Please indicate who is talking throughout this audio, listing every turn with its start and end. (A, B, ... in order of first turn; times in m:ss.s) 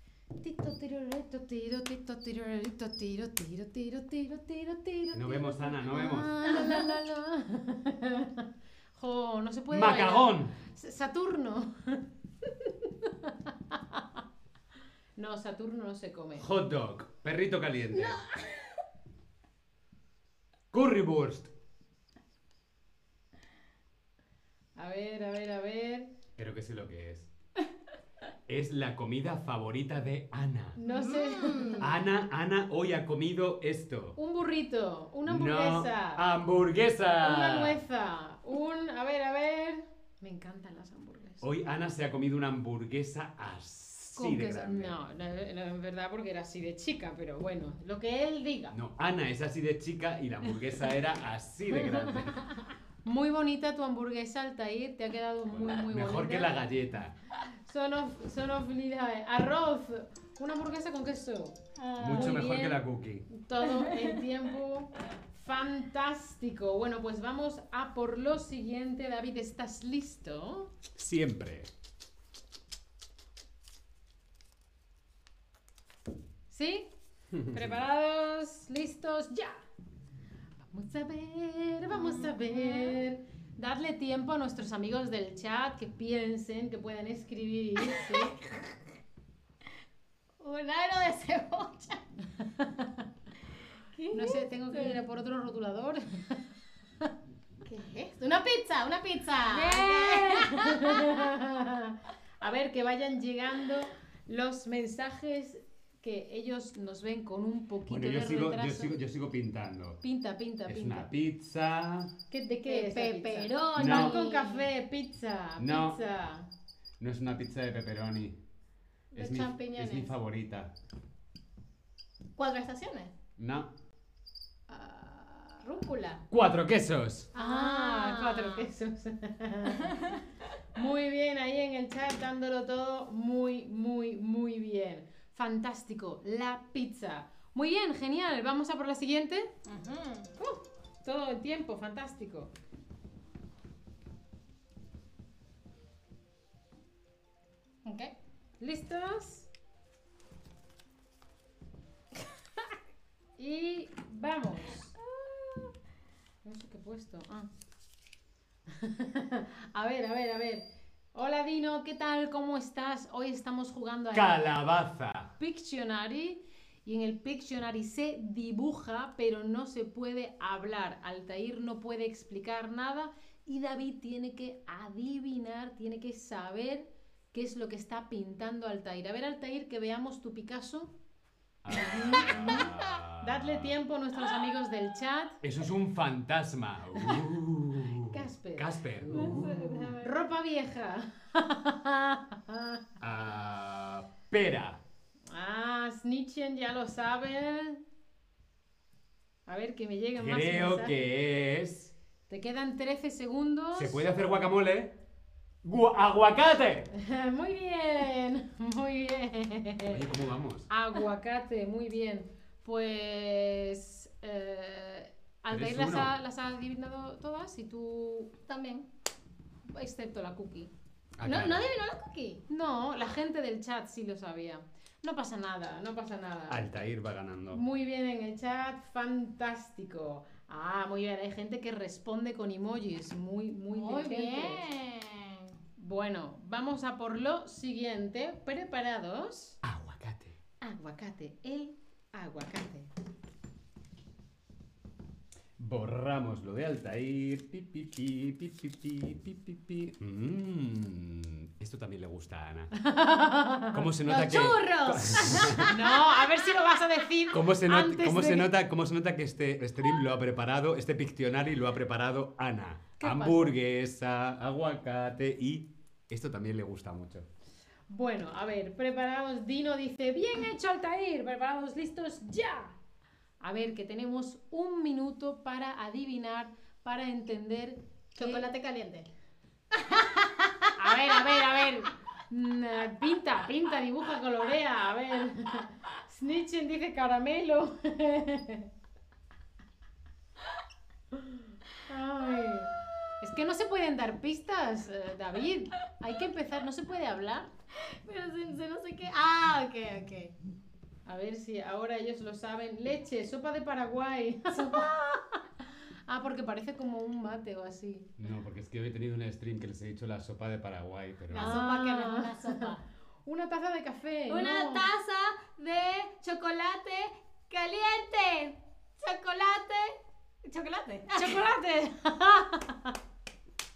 0:00.4-0:14.0 A
0:05.1-0:06.4 B
0:06.5-0:06.9 C
0:09.7-0:10.6 B
0:15.2-0:16.5 A
0:16.4-0:18.3 B
0:18.2-0:18.6 C
0:20.7-0:21.5 B
0:24.8-0:26.1 A
0:26.4-0:27.3 B
0:28.5-0:30.8 B
0:30.8-0:31.9 A
0:30.8-0:31.9 C
0:31.8-0:34.2 B
0:34.2-0:36.2 A
0:35.3-0:37.8 B
0:37.2-0:41.4 A
0:41.4-0:45.0 B
0:44.2-0:48.8 A
0:48.7-0:52.4 B
0:53.0-0:56.6 A
0:55.5-0:57.2 B
0:57.7-1:01.6 A
1:01.8-1:02.4 C
1:02.0-1:03.3 B
1:02.1-1:10.7 A
1:03.6-1:04.2 C
1:11.0-1:11.7 B
1:16.5-1:16.9 A
1:17.4-1:17.8 B
1:17.5-1:19.6 A
1:20.7-1:28.4 A
1:22.0-1:23.0 C
1:28.0-1:28.3 C
1:30.4-1:32.0 C
1:32.6-1:32.9 A
1:33.9-1:35.0 C
1:34.1-1:36.4 A
1:37.6-1:41.3 C
1:39.5-1:49.0 A
1:47.9-1:50.0 B
1:50.0-1:51.1 A
1:50.7-1:52.1 B
1:52.3-1:56.5 A
1:52.7-1:54.7 C
1:53.8-1:54.2 B
1:55.6-1:56.0 B
1:57.0-1:58.4 B
1:59.1-2:00.2 C
1:59.2-2:00.7 B
2:02.4-2:03.1 C
2:03.4-2:03.7 B
2:04.7-2:06.2 C
2:05.6-2:05.9 A
2:06.3-2:07.3 B
2:07.3-2:08.7 C
2:07.4-2:09.9 A
2:09.8-2:10.2 C
2:10.8-2:19.5 A
2:19.7-2:20.3 C
2:20.4-2:22.5 A
2:27.8-2:28.1 C
2:28.6-2:29.5 A
2:33.4-2:35.0 A
2:35.2-2:35.7 C
2:36.4-2:37.5 A
2:38.8-2:44.5 A
2:44.1-2:45.3 B
2:45.4-3:00.9 A
3:01.6-3:03.7 B
3:01.8-3:05.4 A
3:02.5-3:02.7 C
3:05.4-3:09.9 B
3:07.0-3:07.2 A
3:08.1-3:12.8 A
3:09.1-3:10.2 C
3:13.0-3:14.8 B
3:15.3-3:17.8 A
3:19.5-3:21.0 A
3:20.2-3:21.9 B
3:22.3-3:24.1 A
3:23.7-3:25.0 B
3:25.6-3:26.9 B
3:26.9-3:30.0 A
3:29.9-3:30.7 B
3:30.7-3:38.3 A
3:35.5-3:36.1 B
3:38.5-3:38.9 C
3:39.7-3:40.7 A
3:41.2-3:41.7 B
3:41.2-3:42.4 C
3:42.5-3:46.7 A
3:46.5-3:47.6 B
3:47.5-3:54.6 A
3:53.7-3:55.6 C
3:55.8-3:59.6 A
3:59.6-4:00.4 B
4:00.6-4:02.9 A
4:05.6-4:12.7 B
4:12.8-4:13.8 A
4:13.7-4:15.7 B
4:14.1-4:15.8 C
4:15.7-4:18.5 A
4:17.3-4:27.3 B
4:23.0-4:23.6 A
4:27.9-4:32.8 A
4:33.4-4:38.5 A
4:38.2-4:39.1 C
4:39.7-4:41.3 C
4:40.8-4:48.7 A
4:51.2-4:57.5 A
4:57.9-5:00.3 C
5:01.1-5:04.9 A
5:04.5-5:05.2 C
5:06.1-5:08.1 A
5:08.2-5:11.6 B
5:11.3-5:12.8 C
5:11.4-5:12.7 A
5:13.2-5:14.9 A
5:14.3-5:21.4 C
5:21.1-5:23.0 A